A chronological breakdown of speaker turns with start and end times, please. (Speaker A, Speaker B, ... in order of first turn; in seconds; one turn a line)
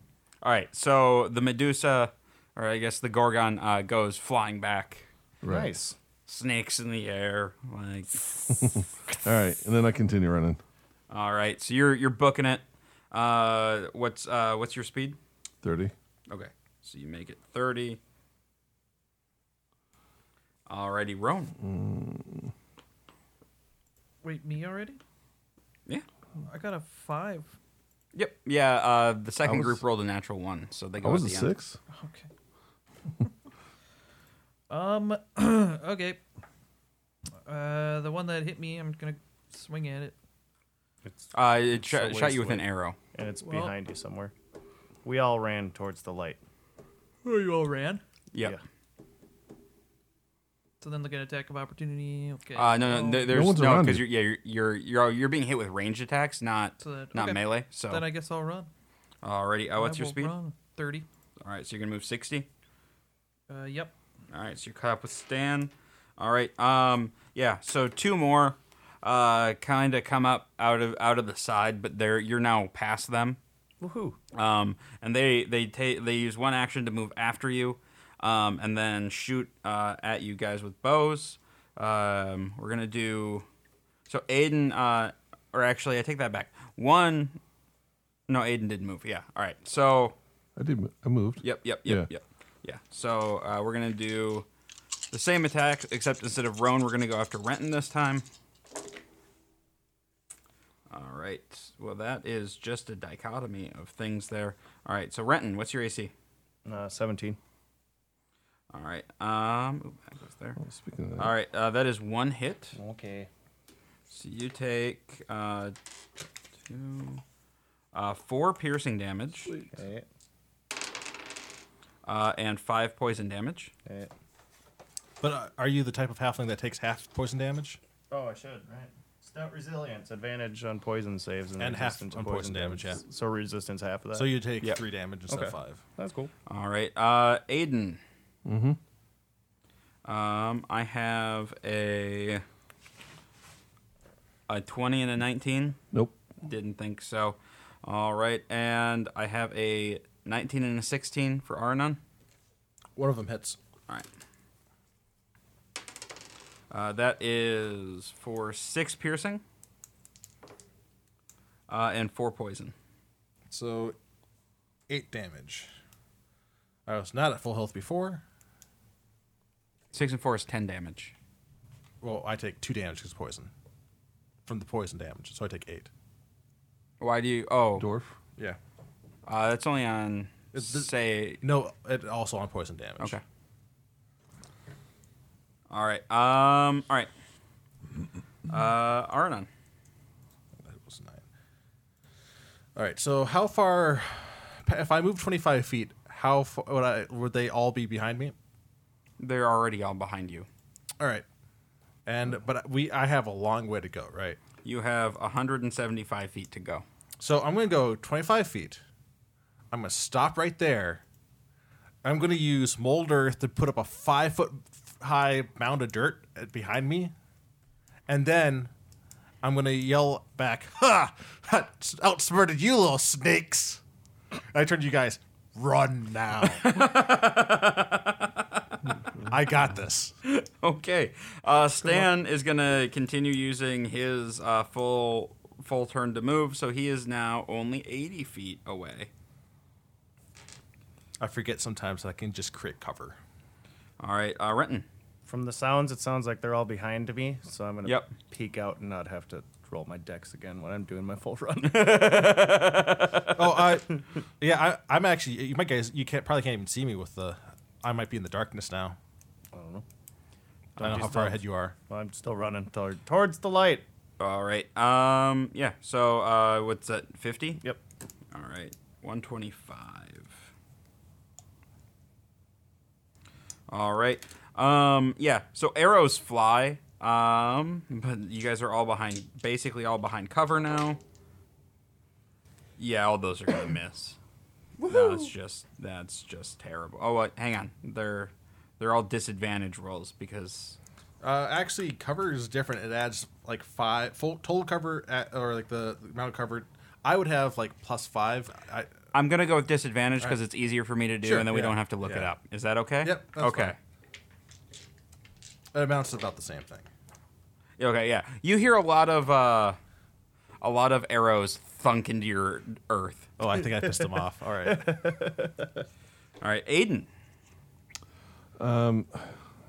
Speaker A: 0.4-5.1
Speaker B: 5.4-5.8
Speaker C: 5.5-6.0
Speaker A: 6.3-8.3
Speaker B: 8.6-10.6
Speaker A: 11.1-15.2
Speaker B: 15.6-15.9
Speaker A: 16.3-18.0
Speaker A: 20.7-21.6
Speaker B: 21.6-22.5
Speaker D: 24.2-25.0
Speaker D: 26.4-27.5
Speaker A: 28.1-31.5
Speaker B: 29.4-29.8
Speaker B: 31.0-31.8
Speaker D: 31.9-32.3
Speaker D: 34.7-36.2
Speaker D: 37.5-40.1
Speaker C: 41.0-44.3
Speaker A: 41.3-43.0
Speaker D: 43.4-43.7
Speaker C: 45.0-46.4
Speaker D: 47.2-48.0
Speaker A: 48.3-48.6
Speaker D: 50.8-53.3
Speaker A: 52.5-58.0
Speaker B: 53.3-54.1
Speaker D: 56.8-58.7
Speaker A: 59.2-60.3
Speaker D: 59.8-61.0
Speaker A: 61.4-62.5
Speaker D: 63.5-63.9
Speaker A: 64.3-73.4
Speaker C: 73.8-74.2
Speaker A: 74.3-83.5
Speaker A: 84.1-87.4
Speaker A: 88.3-90.2
Speaker B: 90.5-92.1
Speaker A: 91.4-94.5
Speaker A: 95.1-98.2
Speaker A: 100.9-106.1
Speaker C: 106.7-107.4
Speaker A: 108.7-110.6
Speaker B: 110.6-111.3
Speaker A: 111.2-112.8
Speaker C: 112.7-113.3
Speaker A: 114.1-115.7
Speaker A: 116.7-117.2
Speaker A: 117.9-119.5
Speaker C: 119.7-120.0
Speaker A: 122.0-123.7
Speaker C: 123.8-124.1
Speaker E: 125.2-127.8
Speaker C: 128.1-134.3
Speaker E: 131.6-133.0
Speaker E: 134.1-135.8
Speaker C: 135.3-136.3
Speaker A: 136.5-138.0
Speaker B: 138.4-138.8
Speaker A: 140.0-142.4
Speaker A: 144.5-145.8
Speaker A: 146.4-152.0
Speaker E: 152.9-153.6
Speaker A: 156.7-159.4
Speaker A: 161.7-162.7
Speaker E: 163.5-163.9
Speaker E: 164.9-165.7
Speaker E: 166.8-168.2
Speaker A: 169.9-171.1
Speaker E: 172.0-173.5
Speaker E: 174.4-175.9
Speaker A: 177.0-177.9
Speaker B: 177.8-178.2
Speaker A: 179.2-181.4
Speaker E: 180.5-183.2
Speaker A: 185.7-187.1
Speaker A: 188.5-189.5
Speaker E: 190.6-191.2
Speaker E: 192.7-198.3
Speaker A: 199.2-200.5
Speaker E: 201.0-201.2
Speaker E: 202.1-204.4
Speaker A: 204.6-206.8
Speaker E: 207.2-208.8
Speaker E: 209.7-211.0
Speaker E: 212.0-217.1
Speaker E: 218.1-218.7
Speaker E: 219.4-223.8
Speaker E: 224.5-226.7
Speaker A: 226.4-228.7
Speaker E: 229.3-230.1
Speaker A: 230.2-239.1
Speaker E: 241.2-243.2
Speaker A: 244.0-244.8
Speaker C: 245.2-252.3
Speaker A: 247.8-248.1
Speaker A: 251.6-253.6
Speaker E: 253.3-259.0
Speaker C: 259.5-259.8
Speaker C: 260.8-263.8
Speaker E: 260.8-261.8
Speaker A: 264.2-267.6
Speaker A: 268.3-270.4
Speaker A: 273.7-281.0
Speaker A: 282.8-284.2
Speaker C: 284.8-285.3
Speaker A: 284.8-290.8
Speaker E: 291.2-298.9
Speaker A: 299.1-303.8
Speaker E: 301.2-302.3
Speaker E: 303.0-303.8
Speaker E: 305.7-306.9
Speaker A: 307.8-309.8
Speaker A: 310.6-313.3
Speaker E: 313.4-315.0
Speaker C: 314.6-315.8
Speaker A: 316.4-317.1
Speaker B: 318.6-319.4